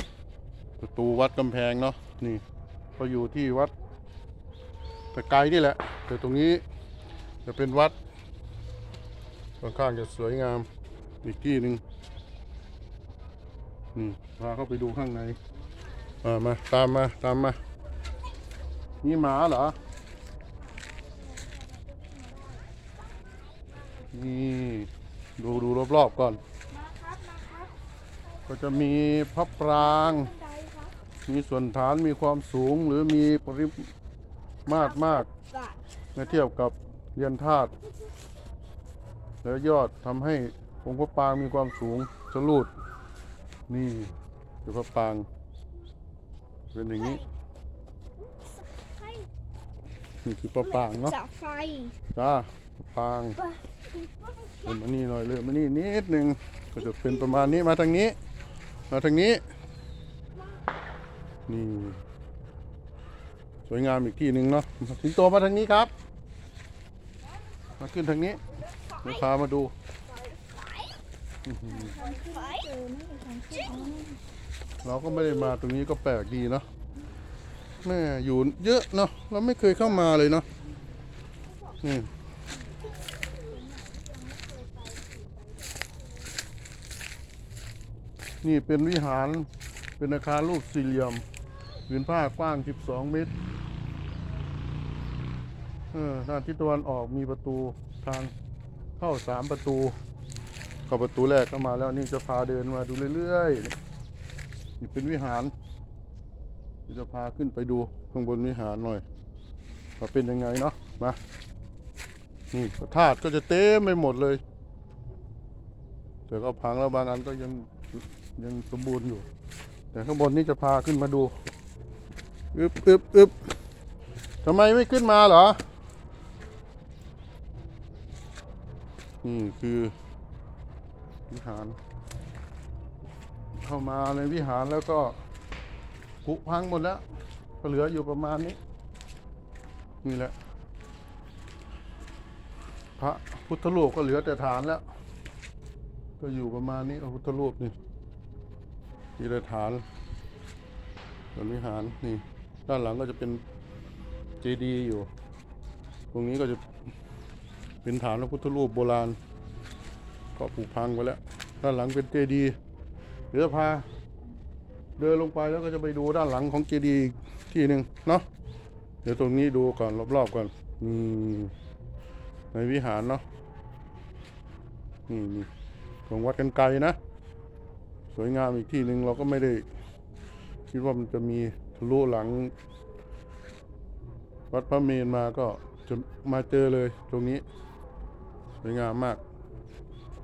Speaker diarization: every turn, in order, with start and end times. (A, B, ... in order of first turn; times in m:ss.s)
0:00.8-0:02.4 A
0:03.0-0:03.7 A
0:05.1-0:06.6 A
0:07.4-0:08.0 A
0:09.6-0:10.7 A
0:11.2-0:11.8 A
0:13.9-0:15.4 A
0:16.2-0:17.6 A
0:19.0-0:19.8 A
0:20.6-0:22.6 B
0:24.1-0:26.4 A
0:26.7-0:27.7 B
0:28.5-0:30.3 A
0:29.8-0:30.9 B
0:31.2-0:33.9 A
0:34.6-0:35.3 A
0:35.0-0:35.8 B
0:36.1-0:37.7 A
0:39.4-0:42.7 A
0:43.7-0:44.1 A
0:44.6-0:45.3 A
0:46.7-0:47.2 A
0:48.8-0:49.3 B
0:50.2-0:51.2 A
0:50.7-0:51.9 B
0:52.1-0:53.4 A
0:53.4-0:54.6 B
0:54.6-0:58.2 A
0:58.9-0:59.4 A
1:01.5-1:02.0 A
1:03.6-1:05.9 A
1:07.8-1:08.4 A
1:09.0-1:09.7 A
1:10.1-1:10.9 B
1:11.4-1:11.9 A
1:11.7-1:14.2 B
1:14.8-1:16.6 A
1:17.8-1:20.4 A
1:21.8-1:22.1 A
1:23.3-1:25.9 B
1:28.4-1:31.2 A
1:31.9-1:33.3 A
1:35.9-1:38.3 A
1:39.0-1:40.0 A
1:40.9-1:43.8 A
1:44.8-1:45.5 A
1:46.9-1:49.0 A
1:50.0-1:51.2 A
1:52.5-1:54.4 A
1:56.3-1:59.3 A
1:59.9-2:01.3 A
2:02.5-2:03.5 A
2:04.4-2:05.6 A
2:09.2-2:09.9 A
2:11.3-2:11.8 A
2:13.6-2:15.2 A
2:16.2-2:17.0 A
2:17.6-2:18.6 A
2:20.0-2:20.3 A
2:23.0-2:24.8 A
2:26.2-2:27.7 A
2:29.2-2:29.8 A
2:31.3-2:33.4 A
2:34.4-2:35.1 A
2:36.1-2:36.6 A
2:37.8-2:39.2 A
2:40.4-2:42.6 A
2:43.3-2:43.9 A
2:45.0-2:48.3 A
2:49.0-2:51.5 A
2:52.5-2:53.2 A
2:55.1-2:55.5 A
2:56.1-2:57.0 A
2:58.1-2:59.6 A
3:00.7-3:02.5 A
3:04.5-3:07.4 A
3:08.6-3:09.2 A